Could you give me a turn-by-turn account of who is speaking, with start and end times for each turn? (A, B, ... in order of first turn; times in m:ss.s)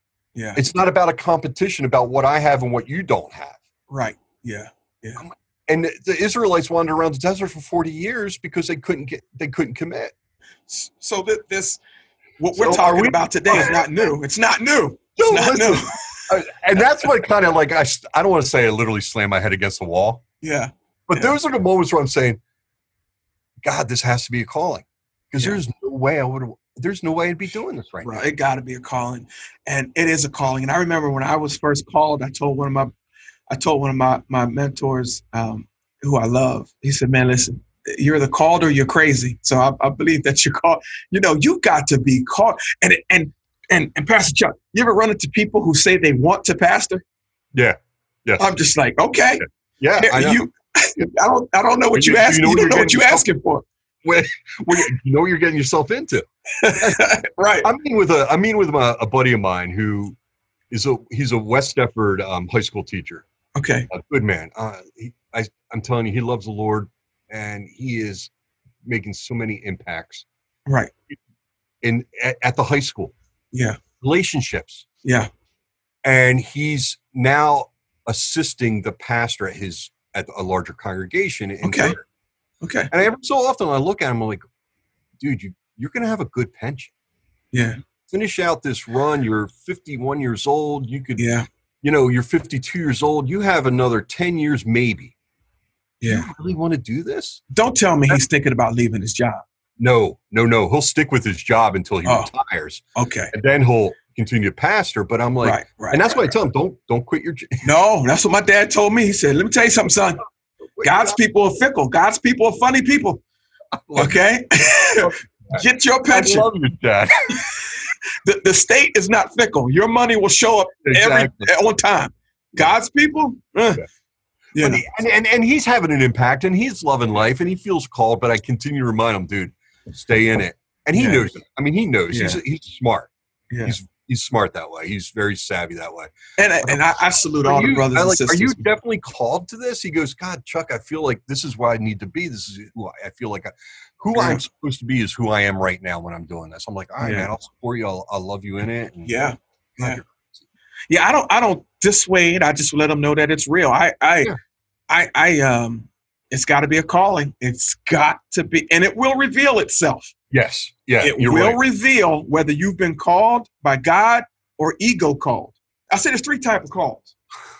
0:00.3-0:00.6 A
0:00.6-0:03.6 B
0:03.9-0:05.2 A
0:05.2-0:10.1 B
0:10.7-0:11.8 A
0:12.4-0:16.3 A
0:12.5-0:13.9 B
0:15.2-0:20.2 B
0:20.4-0:21.4 A
0:21.1-0:22.4 B
0:23.6-0:28.3 B
0:28.0-0:32.9 A
0:33.5-0:47.0 A
0:47.5-0:48.4 B
0:48.4-0:49.4 A
0:49.8-0:50.4 B
0:50.0-0:53.6 A
0:51.9-0:53.3 B
0:54.0-0:57.0 B
0:56.6-0:57.7 A
0:57.6-1:00.2 B
1:00.7-1:03.2 B
1:03.5-1:03.9 A
1:03.9-1:08.3 B
1:08.8-1:10.2 B
1:10.6-1:10.9 A
1:11.8-1:13.1 B
1:13.5-1:13.8 A
1:14.0-1:14.8 B
1:15.0-1:15.3 A
1:16.0-1:22.0 B
1:21.6-1:22.0 A
1:22.6-1:22.9 A
1:22.9-1:24.4 B
1:25.2-1:26.9 B
1:27.5-1:27.8 A
1:28.1-1:35.1 B
1:31.2-1:31.4 A
1:36.0-1:36.3 A
1:36.0-1:37.4 B
1:37.5-1:39.4 A
1:39.8-1:47.6 B
1:43.0-1:43.3 A
1:45.4-1:46.3 A
1:47.6-1:50.2 A
1:50.8-1:51.2 B
1:50.8-1:53.2 A
1:53.8-1:54.2 B
1:53.9-1:56.5 A
1:55.0-1:57.4 B
1:58.2-2:03.8 A
2:00.8-2:01.5 B
2:04.5-2:04.8 A
2:04.6-2:13.1 B
2:10.9-2:11.3 A
2:12.1-2:12.4 A
2:13.5-2:13.8 A
2:13.6-2:16.1 B
2:16.4-2:18.6 A
2:17.4-2:29.1 B
2:24.1-2:24.4 A
2:27.0-2:27.3 A
2:29.0-2:30.0 A
2:29.8-2:30.4 B
2:30.9-2:34.3 A
2:34.9-2:40.1 A
2:40.3-2:41.6 B
2:41.0-2:47.1 A